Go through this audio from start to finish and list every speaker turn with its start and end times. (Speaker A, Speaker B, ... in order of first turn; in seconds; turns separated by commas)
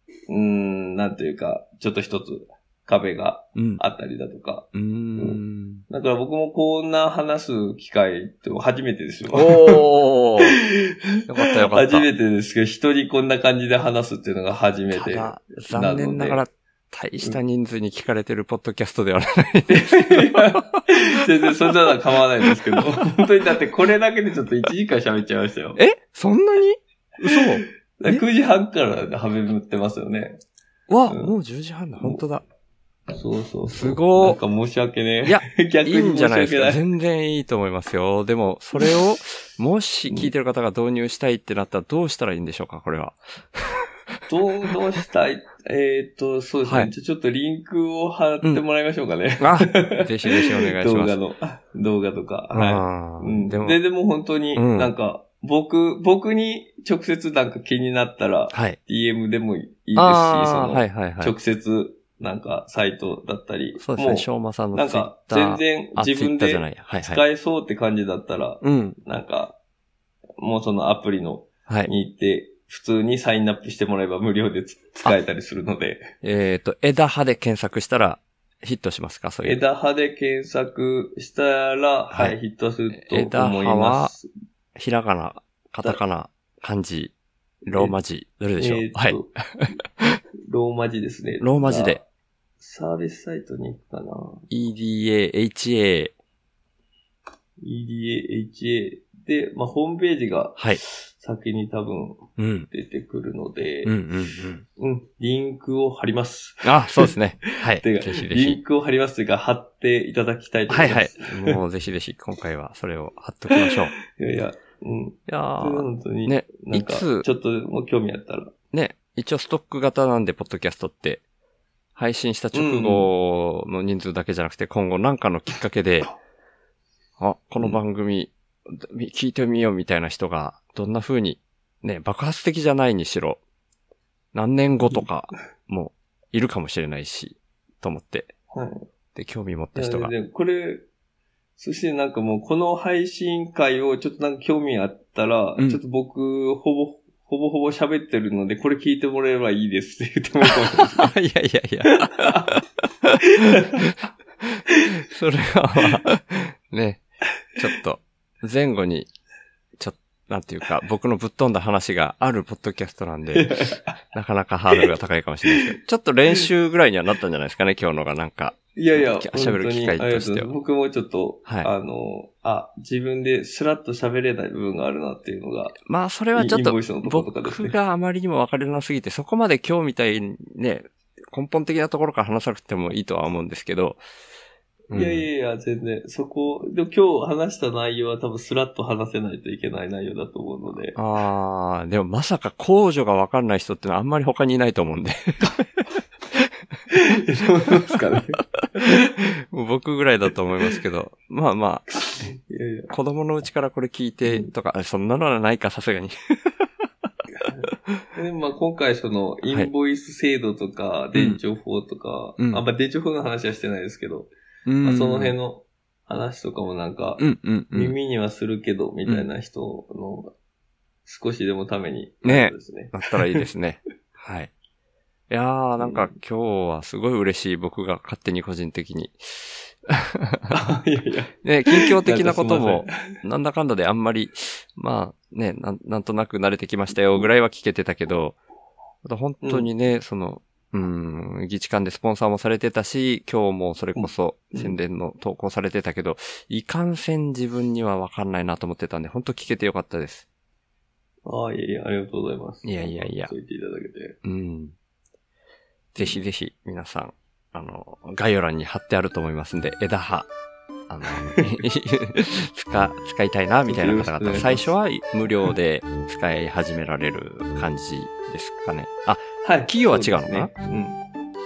Speaker A: 0.3-9.8, Speaker B: 3.5-3.8, Speaker B: 4.7-5.8, Speaker B: 9.3-10.6, Speaker A: 10.4-10.9, Speaker B: 11.2-12.1, Speaker A: 11.5-16.4, Speaker B: 14.9-21.0, Speaker A: 19.7-25.8, Speaker B: 21.9-22.8, Speaker B: 25.8-28.2, Speaker A: 28.0-30.4, Speaker B: 30.9-32.4, Speaker A: 31.1-31.3, Speaker A: 33.1-36.8, Speaker B: 33.7-34.4, Speaker B: 35.2-43.9, Speaker A: 40.0-40.3, Speaker A: 44.3-69.5, Speaker B: 46.6-46.9, Speaker B: 49.4-51.2, Speaker B: 52.5-53.8, Speaker B: 54.5-54.9, Speaker B: 58.5-58.8, Speaker B: 60.0-61.3, Speaker B: 63.8-67.2, Speaker B: 68.6-69.0, Speaker A: 70.4-76.1, Speaker B: 76.2-79.6, Speaker A: 79.4-84.3, Speaker B: 82.1-82.4, Speaker B: 82.9-84.1, Speaker B: 84.7-87.1, Speaker B: 87.6-90.2, Speaker A: 87.7-88.0, Speaker A: 88.5-89.3, Speaker A: 90.5-92.0, Speaker B: 91.4-92.0, Speaker A: 92.6-94.4, Speaker B: 94.5-96.1, Speaker A: 97.6-104.0, Speaker B: 102.4-102.7, Speaker B: 103.8-104.6, Speaker A: 104.8-111.6, Speaker B: 106.6-108.6, Speaker B: 110.7-113.9, Speaker A: 113.5-118.5, Speaker B: 115.3-117.3, Speaker B: 118.7-121.2, Speaker B: 122.0-126.1, Speaker A: 122.5-123.1, Speaker B: 127.2-133.4, Speaker B: 134.3-138.3, Speaker A: 138.5-138.8, Speaker B: 139.1-140.1, Speaker A: 139.7-140.9, Speaker A: 141.6-151.1, Speaker B: 151.0-159.1, Speaker A: 151.8-152.5, Speaker A: 153.2-153.8, Speaker B: 159.8-163.5, Speaker A: 163.3-163.9, Speaker B: 164.1-170.5, Speaker A: 168.8-175.8, Speaker B: 175.8-184.0, Speaker A: 176.3-177.8, Speaker B: 184.9-185.2, Speaker A: 184.9-191.0, Speaker B: 190.9-195.8, Speaker A: 196.9-199.2, Speaker B: 198.6-202.3, Speaker A: 201.9-202.9, Speaker B: 202.9-206.7, Speaker A: 204.2-204.5, Speaker A: 207.4-214.3, Speaker B: 211.1-211.4, Speaker B: 212.4-212.6, Speaker B: 214.7-215.3, Speaker A: 214.8-220.3, Speaker B: 217.2-217.9, Speaker A: 221.0-223.4, Speaker B: 222.2-224.5, Speaker B: 225.3-230.6, Speaker A: 225.8-226.1, Speaker A: 230.5-233.2, Speaker B: 231.4-238.4, Speaker B: 239.0-250.2, Speaker A: 239.4-239.7, Speaker A: 243.9-244.8, Speaker A: 251.2-254.2, Speaker B: 252.6-253.3, Speaker B: 254.2-254.7, Speaker B: 255.9-260.3, Speaker B: 260.9-270.5, Speaker A: 261.2-261.5, Speaker A: 263.6-264.7, Speaker A: 269.4-271.0